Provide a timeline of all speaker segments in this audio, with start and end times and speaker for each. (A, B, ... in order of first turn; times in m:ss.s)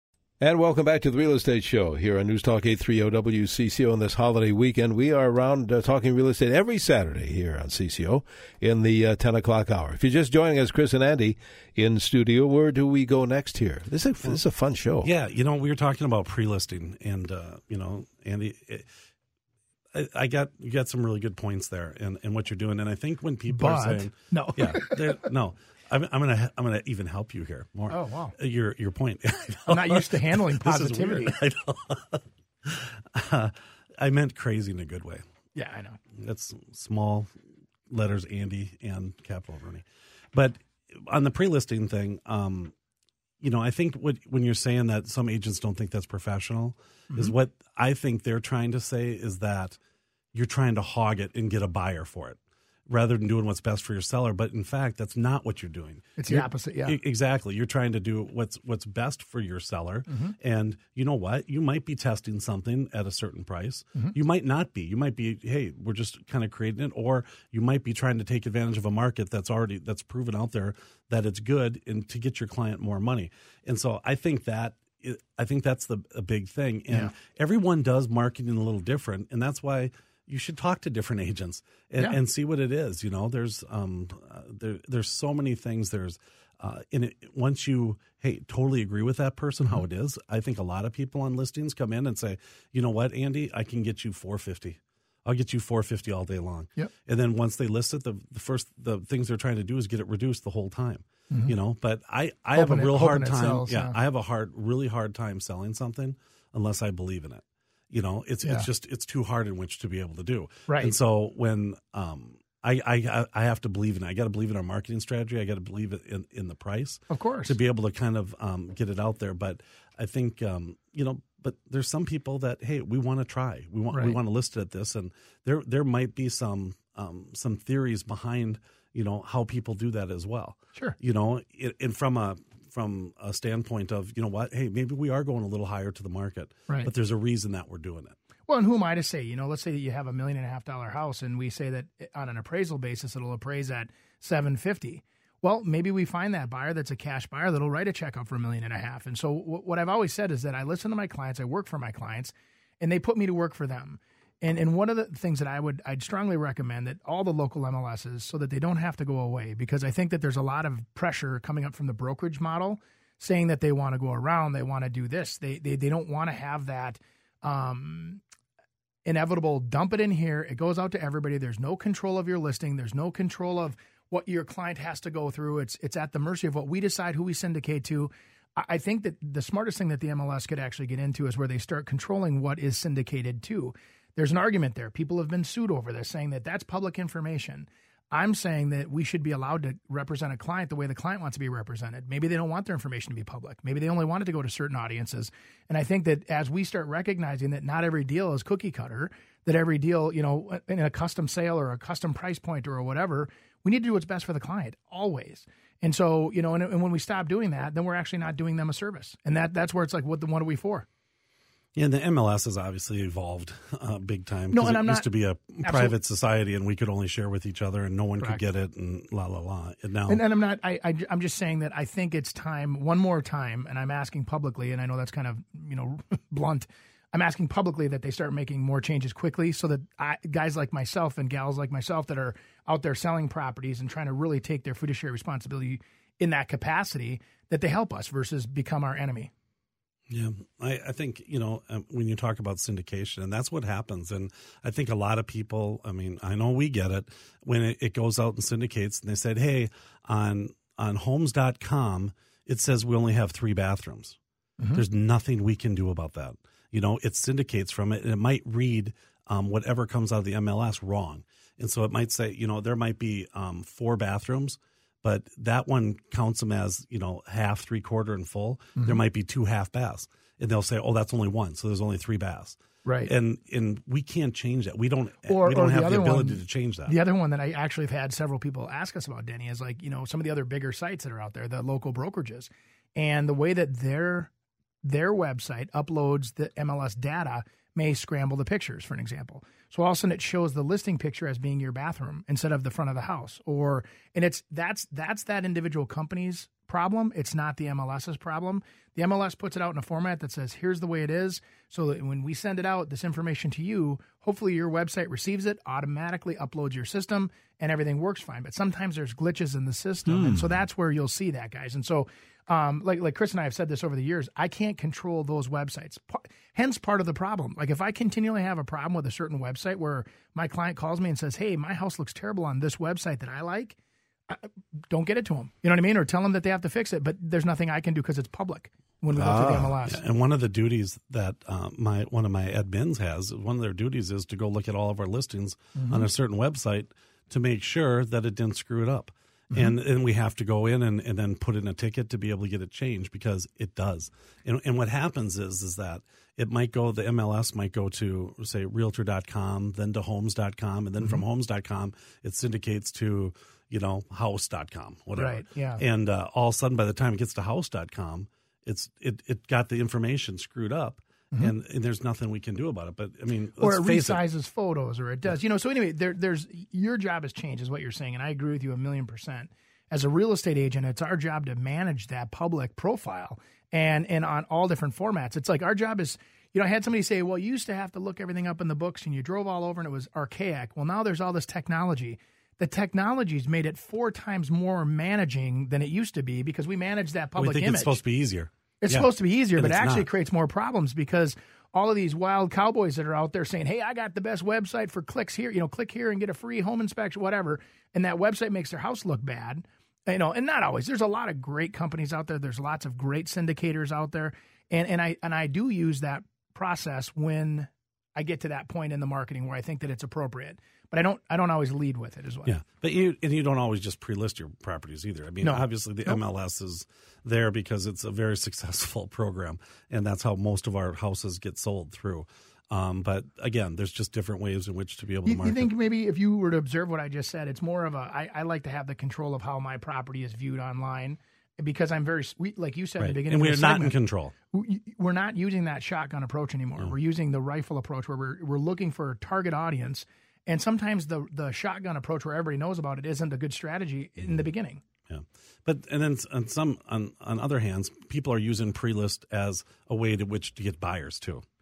0:00.4-0:15.1 A
0:15.0-0:18.9 B
0:19.9-0:35.2 B
0:23.5-0:25.2 C
0:27.9-0:28.4 C
0:29.7-0:31.4 C
0:35.6-0:36.0 C
0:36.2-0:37.3 B
0:37.9-0:42.7 B
0:43.4-0:49.8 B
0:50.3-2:18.2 B
0:56.2-0:57.0 C
1:00.1-1:00.4 C
1:42.6-1:44.0 C
1:48.4-1:48.7 C
1:50.7-1:50.9 C
1:57.1-1:57.6 C
2:03.9-2:04.2 C
2:18.5-2:48.2 C
2:49.0-3:30.9 C
3:31.8-3:40.2 B
3:34.5-3:35.1 C
3:35.6-3:36.0 C
3:40.1-3:59.3 C
4:00.1-4:14.2 B
4:14.8-4:37.0 B
4:32.8-4:33.1 C
4:35.2-4:44.3 C
4:44.8-5:23.8 C
5:10.1-5:10.5 A
5:24.3-5:30.0 C
5:29.1-5:29.7 A
5:29.9-6:04.2 B
5:35.8-5:36.1 C
5:55.2-5:55.8 C
6:03.6-6:28.0 C
6:27.4-6:30.1 B
6:28.8-6:52.6 C
6:52.5-7:05.7 B
6:55.4-6:56.2 C
7:05.2-7:14.0 C
7:13.0-7:14.3 B
7:14.5-7:24.8 C
7:25.1-7:31.4 B